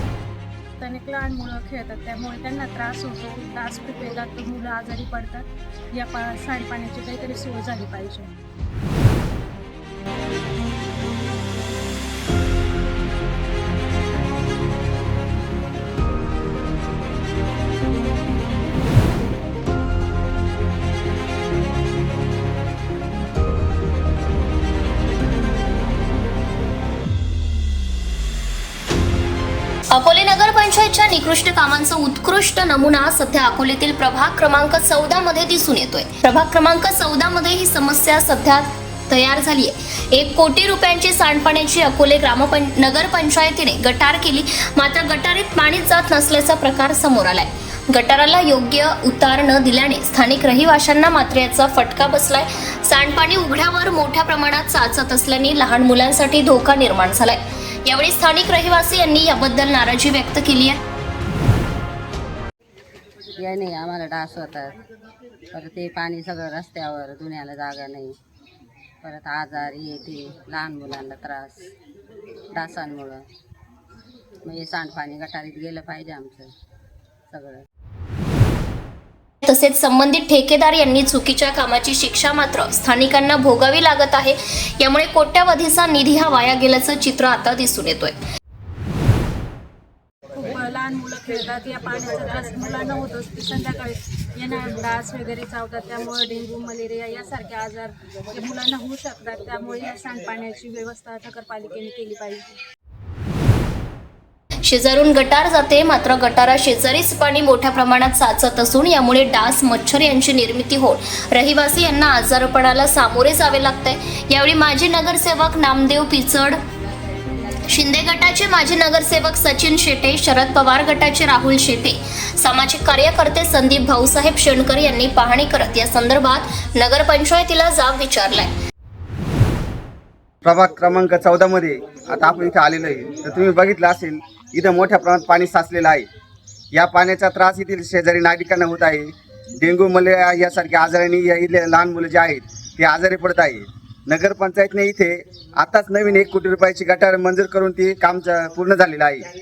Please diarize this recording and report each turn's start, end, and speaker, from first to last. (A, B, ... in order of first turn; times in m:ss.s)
0:00.8-0:08.3 A
0:29.9-1:00.8 B
1:03.4-1:04.7 C
1:05.5-1:08.2 C
1:09.0-1:11.7 C
1:12.6-1:13.2 C
1:14.4-1:16.5 C
1:17.3-1:17.6 C
1:19.4-1:28.2 B
1:30.3-1:42.4 A
1:44.6-1:56.6 B
1:57.7-2:08.5 B
2:10.4-2:16.1 D
2:16.7-2:29.2 D